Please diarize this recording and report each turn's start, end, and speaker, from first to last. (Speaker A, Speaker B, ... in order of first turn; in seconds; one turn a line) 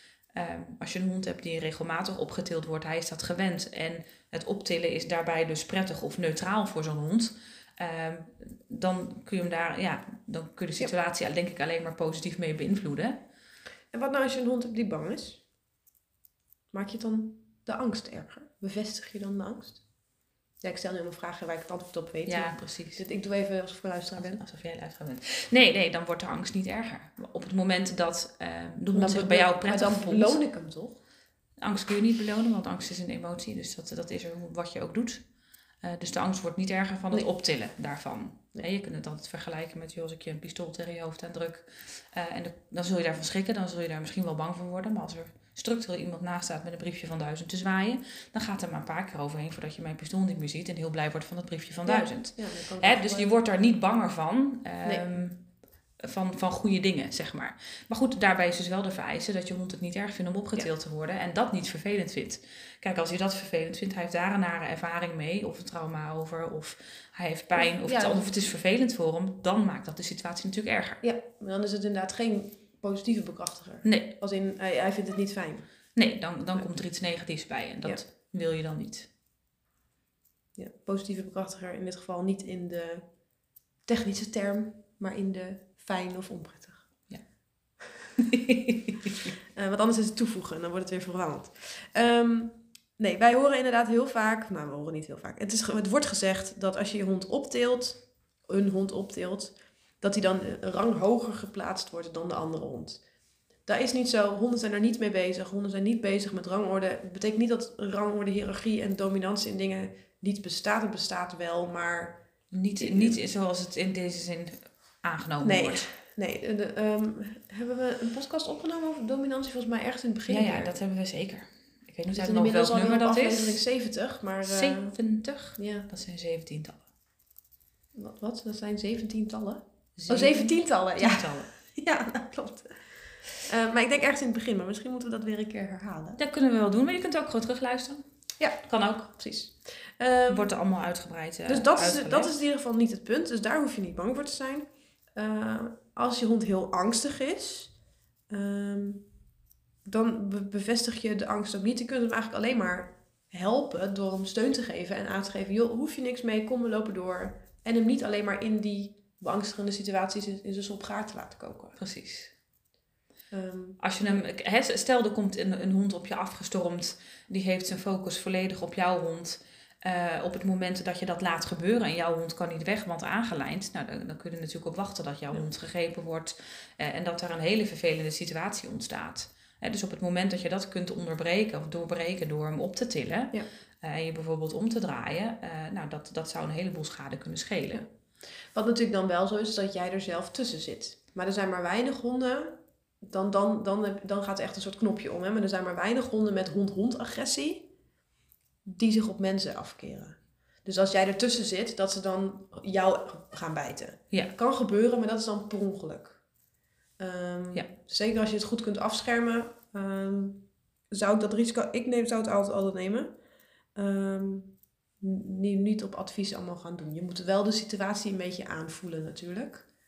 Speaker A: 0.3-13.2
Speaker B: 13.9-15.4
Speaker B: 16.7-19.8
Speaker B: 20.6-24.4
Speaker A: 22.3-23.0
Speaker A: 24.2-30.4
Speaker B: 28.9-31.0
Speaker A: 31.6-35.2
Speaker A: 35.8-55.4
Speaker B: 51.9-53.4
Speaker B: 54.8-55.2
Speaker A: 56.0-71.0
Speaker B: 67.6-68.3
Speaker B: 71.0-75.7
Speaker A: 73.8-74.1
Speaker A: 76.0-79.1
Speaker B: 80.6-83.0
Speaker B: 83.9-86.8
Speaker A: 88.2-89.3
Speaker B: 89.5-103.0
Speaker B: 103.7-112.2
Speaker A: 112.5-115.9
Speaker B: 112.8-113.2
Speaker B: 115.4-120.8
Speaker A: 120.3-123.6
Speaker B: 122.1-125.0
Speaker A: 124.4-126.8
Speaker B: 125.6-125.9
Speaker B: 128.0-132.8
Speaker A: 130.0-131.5
Speaker B: 133.4-136.2
Speaker A: 136.2-138.0
Speaker A: 138.6-139.1
Speaker B: 139.1-140.5
Speaker A: 140.3-142.3
Speaker B: 141.5-147.7
Speaker B: 148.3-149.1
Speaker B: 149.9-161.8
Speaker A: 161.8-162.3
Speaker B: 163.3-163.8
Speaker A: 163.8-187.8
Speaker B: 188.5-197.7
Speaker B: 198.7-206.2
Speaker B: 207.0-213.1
Speaker B: 213.8-219.7